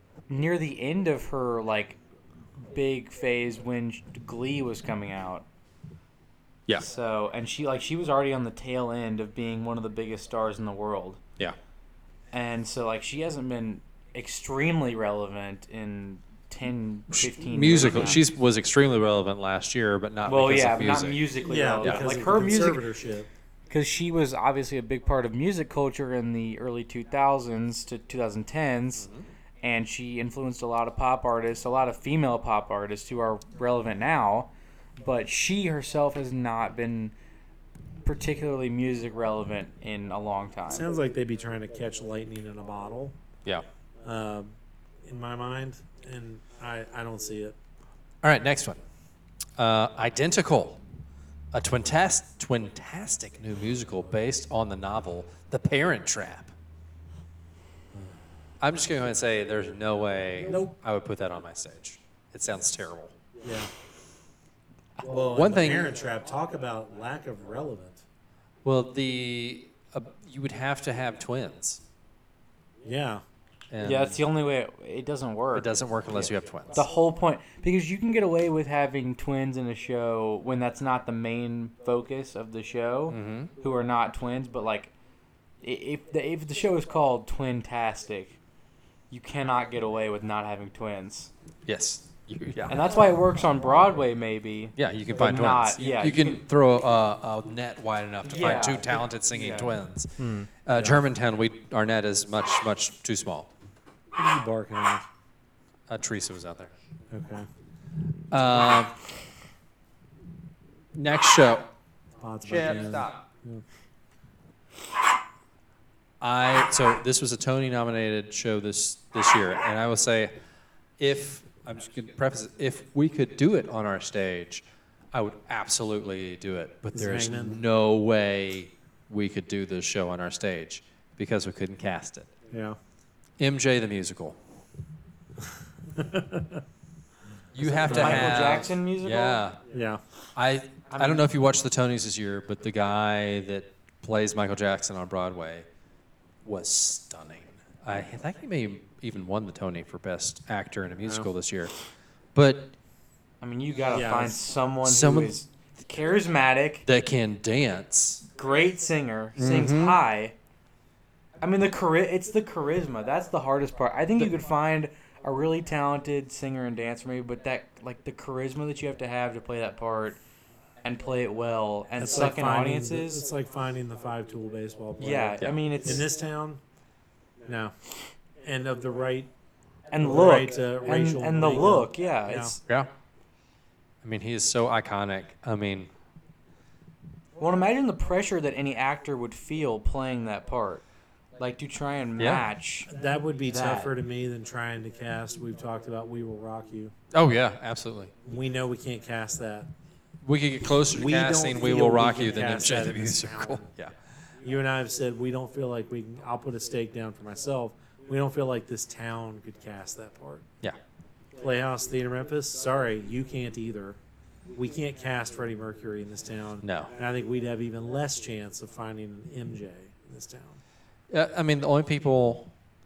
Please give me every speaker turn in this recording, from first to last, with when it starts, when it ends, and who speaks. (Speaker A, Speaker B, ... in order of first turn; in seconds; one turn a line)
Speaker A: 0.3-2.0
Speaker A: 2.7-5.4
Speaker A: 6.8-11.2
Speaker A: 12.3-18.2
Speaker B: 17.1-21.3
Speaker A: 20.2-22.9
Speaker C: 21.4-23.3
Speaker B: 21.8-22.1
Speaker A: 23.7-29.1
Speaker A: 29.6-37.1
Speaker A: 38.0-40.9
Speaker C: 40.7-43.1
Speaker C: 44.0-47.5
Speaker B: 48.2-48.8
Speaker B: 49.6-50.8
Speaker B: 51.5-56.5
Speaker B: 58.6-63.1
Speaker C: 63.4-63.7
Speaker C: 65.0-68.0
Speaker B: 65.3-66.0
Speaker B: 68.6-71.8
Speaker C: 72.8-73.2
Speaker B: 73.7-74.2
Speaker A: 73.8-84.9
Speaker B: 75.5-76.8
Speaker B: 83.1-83.5
Speaker A: 85.6-88.4
Speaker A: 89.1-91.3
Speaker B: 91.7-92.9
Speaker A: 92.7-96.4
Speaker B: 94.8-103.5
Speaker A: 98.2-99.7
Speaker C: 100.2-101.0
Speaker C: 104.1-105.0
Speaker B: 105.9-106.7
Speaker C: 107.1-107.5
Speaker B: 108.3-108.9
Speaker B: 110.9-111.7
Speaker C: 112.2-113.6
Speaker B: 112.4-113.2
Speaker B: 116.2-120.3
Speaker B: 121.0-132.3
Speaker C: 126.9-127.6
Speaker C: 132.5-132.8
Speaker B: 133.4-134.4
Speaker C: 135.9-136.6
Speaker B: 137.5-139.6
Speaker A: 137.6-139.4
Speaker C: 137.6-138.6
Speaker C: 139.7-140.0
Speaker B: 140.3-145.7
Speaker A: 140.9-141.2
Speaker B: 146.4-151.7
Speaker B: 152.3-152.7
Speaker A: 153.4-156.8
Speaker C: 153.9-154.4
Speaker B: 154.8-155.4
Speaker B: 156.8-158.2
Speaker A: 158.3-160.3
Speaker B: 159.4-160.0
Speaker A: 161.4-170.2
Speaker A: 170.8-173.2
Speaker C: 172.0-176.6
Speaker A: 175.0-176.1
Speaker C: 177.4-177.7
Speaker C: 178.4-179.3
Speaker A: 179.9-182.6
Speaker C: 180.0-182.6
Speaker B: 184.0-185.9
Speaker A: 187.4-190.8
Speaker A: 191.4-192.9
Speaker B: 192.2-192.4
Speaker C: 192.9-196.9
Speaker A: 193.5-193.9
Speaker B: 197.1-198.1
Speaker C: 198.2-199.7
Speaker B: 200.2-203.9
Speaker C: 200.9-203.6
Speaker C: 204.4-210.4
Speaker C: 211.4-214.0
Speaker C: 214.5-220.6
Speaker B: 216.6-216.9
Speaker B: 221.1-222.5